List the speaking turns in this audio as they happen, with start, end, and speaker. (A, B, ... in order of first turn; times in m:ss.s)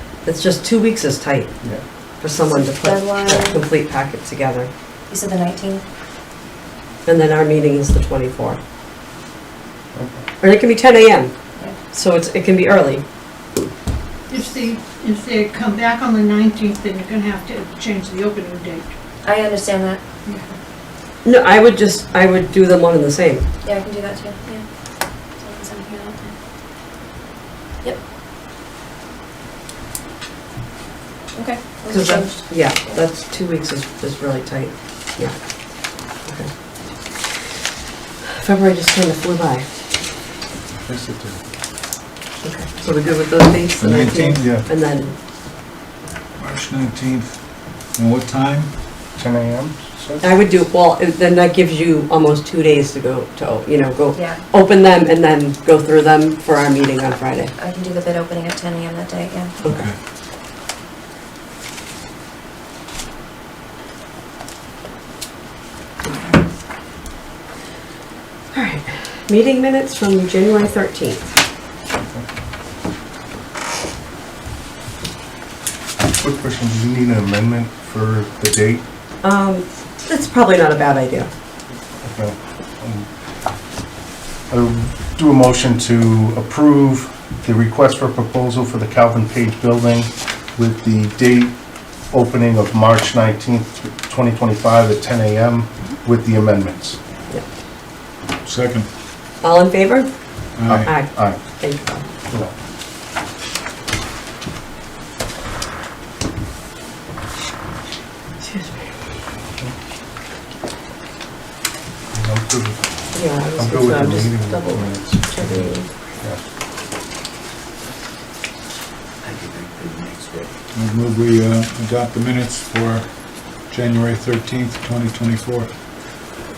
0:00.2-0:01.5 A
0:02.2-0:04.7 A
0:02.5-0:03.6 B
0:05.1-0:05.8 B
0:07.0-0:08.6 A
0:09.9-0:10.2 C
0:10.4-0:11.3 A
0:11.9-0:13.0 A
0:14.3-0:18.9 D
0:19.2-0:20.0 B
0:20.2-0:20.5 D
0:21.2-0:23.4 A
0:23.6-0:24.6 B
0:25.4-0:26.3 B
0:31.3-0:33.0 B
0:31.9-0:35.3 A
0:38.4-0:39.6 A
0:40.8-0:41.4 C
0:42.4-0:45.1 A
0:43.8-0:44.5 E
0:46.4-0:47.4 E
0:48.0-0:48.7 E
0:49.2-0:50.3 C
0:50.2-0:57.5 A
0:54.1-0:54.4 B
0:57.6-0:59.6 B
0:59.6-0:59.9 A
0:59.7-1:00.0 E
1:06.0-1:06.4 A
1:08.5-1:11.3 A
1:16.2-1:18.8 C
1:19.2-1:21.3 A
1:22.0-1:23.1 C
1:24.5-1:31.6 C
1:32.1-1:37.0 C
1:38.4-1:38.9 E
1:39.4-1:40.1 A
1:40.6-1:40.9 E
1:40.6-1:41.4 C
1:40.8-1:42.0 A
1:48.4-1:48.9 A
1:52.1-1:52.9 C
1:53.1-1:55.9 A
1:53.5-1:56.4 C
2:00.7-2:03.1 E
2:03.7-2:05.7 E